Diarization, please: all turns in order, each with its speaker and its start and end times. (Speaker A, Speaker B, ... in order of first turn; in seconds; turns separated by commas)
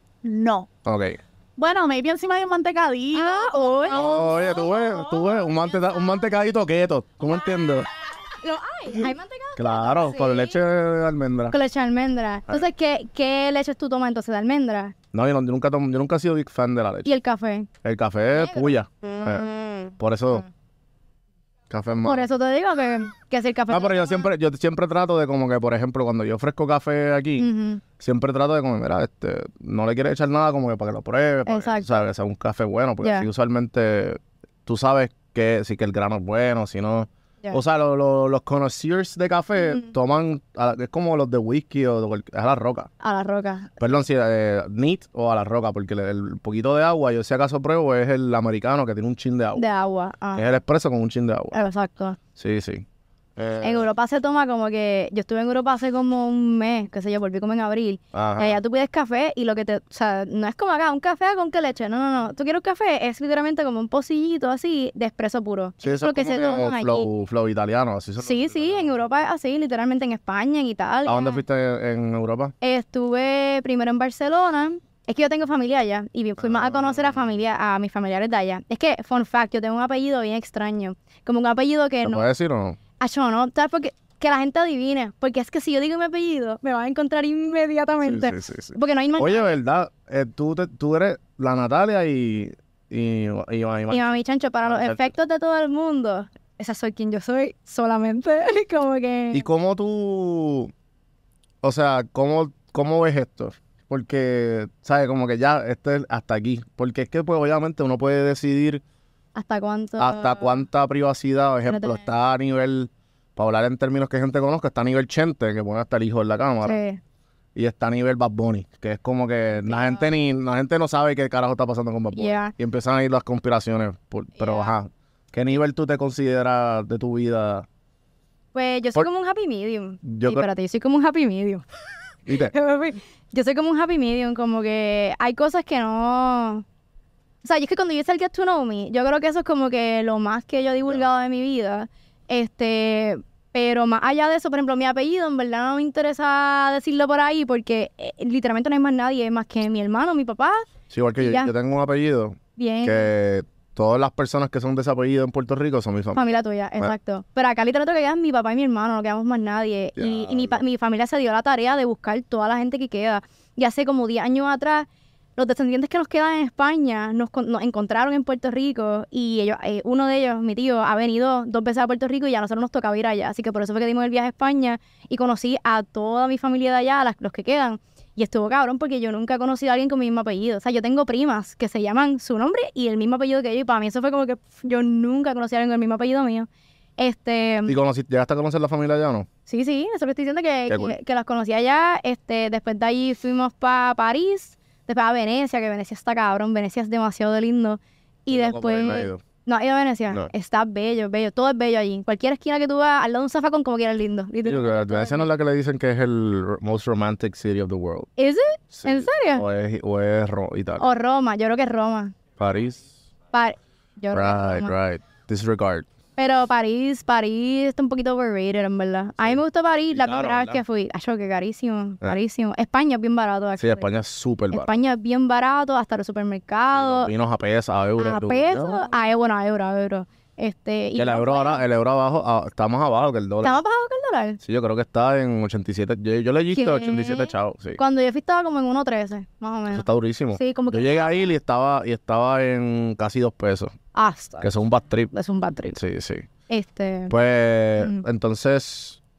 Speaker A: 0.2-0.7, Speaker B: 0.8-1.2, Speaker A: 1.6-4.3, Speaker C: 3.1-5.5, Speaker B: 3.9-7.9, Speaker C: 8.2-10.6, Speaker B: 9.6-11.6, Speaker C: 11.5-14.9, Speaker B: 15.1-17.1, Speaker C: 17.1-17.7, Speaker B: 17.8-20.4, Speaker C: 18.3-18.7, Speaker B: 21.7-22.3, Speaker C: 22.0-24.3, Speaker B: 23.7-27.5, Speaker C: 27.4-27.8, Speaker B: 28.0-42.9, Speaker C: 31.5-31.9, Speaker C: 33.0-33.3, Speaker C: 39.6-39.9, Speaker C: 43.0-43.7, Speaker B: 43.8-49.6, Speaker C: 49.5-50.5, Speaker B: 50.4-51.5, Speaker C: 51.5-52.2, Speaker B: 52.4-52.9, Speaker B: 53.4-53.9, Speaker C: 53.6-67.1, Speaker B: 58.1-58.6, Speaker B: 65.8-69.0, Speaker C: 68.2-71.4, Speaker B: 71.1-72.5, Speaker C: 72.6-82.3, Speaker B: 76.4-77.2, Speaker B: 82.0-82.8, Speaker C: 83.0-89.5, Speaker B: 88.0-94.0, Speaker C: 93.9-99.5, Speaker B: 94.7-95.1, Speaker B: 99.3-100.7, Speaker B: 101.6-108.8, Speaker C: 109.3-110.6, Speaker B: 110.0-116.8, Speaker C: 111.7-112.1, Speaker C: 116.6-117.0, Speaker B: 117.5-127.7, Speaker C: 119.6-120.1, Speaker C: 122.2-122.5, Speaker C: 124.4-124.7, Speaker C: 128.5-131.6, Speaker B: 130.0-130.5, Speaker B: 132.3-132.5, Speaker C: 132.3-136.7, Speaker C: 137.4-150.7, Speaker B: 150.9-156.9, Speaker C: 151.2-151.5, Speaker C: 152.6-153.1, Speaker C: 156.2-187.8, Speaker B: 160.0-160.6, Speaker B: 187.7-189.3, Speaker C: 189.5-205.3, Speaker B: 190.7-191.0, Speaker B: 198.3-199.2, Speaker B: 204.4-208.1, Speaker C: 208.2-209.4, Speaker B: 208.7-210.9, Speaker C: 210.8-212.2, Speaker B: 212.4-212.9, Speaker C: 213.3-214.7, Speaker B: 214.1-215.9, Speaker C: 216.2-223.9, Speaker B: 219.2-220.6, Speaker B: 223.6-224.7, Speaker C: 224.5-227.1, Speaker B: 226.7-228.8, Speaker C: 228.0-231.6, Speaker B: 231.0-233.6, Speaker C: 233.4-234.4, Speaker B: 234.4-237.8, Speaker C: 236.5-241.3, Speaker B: 239.7-243.7, Speaker C: 243.9-244.5, Speaker B: 244.4-245.1, Speaker C: 245.1-245.8, Speaker B: 245.7-246.3, Speaker C: 246.5-247.1, Speaker B: 247.1-249.0, Speaker C: 247.8-248.0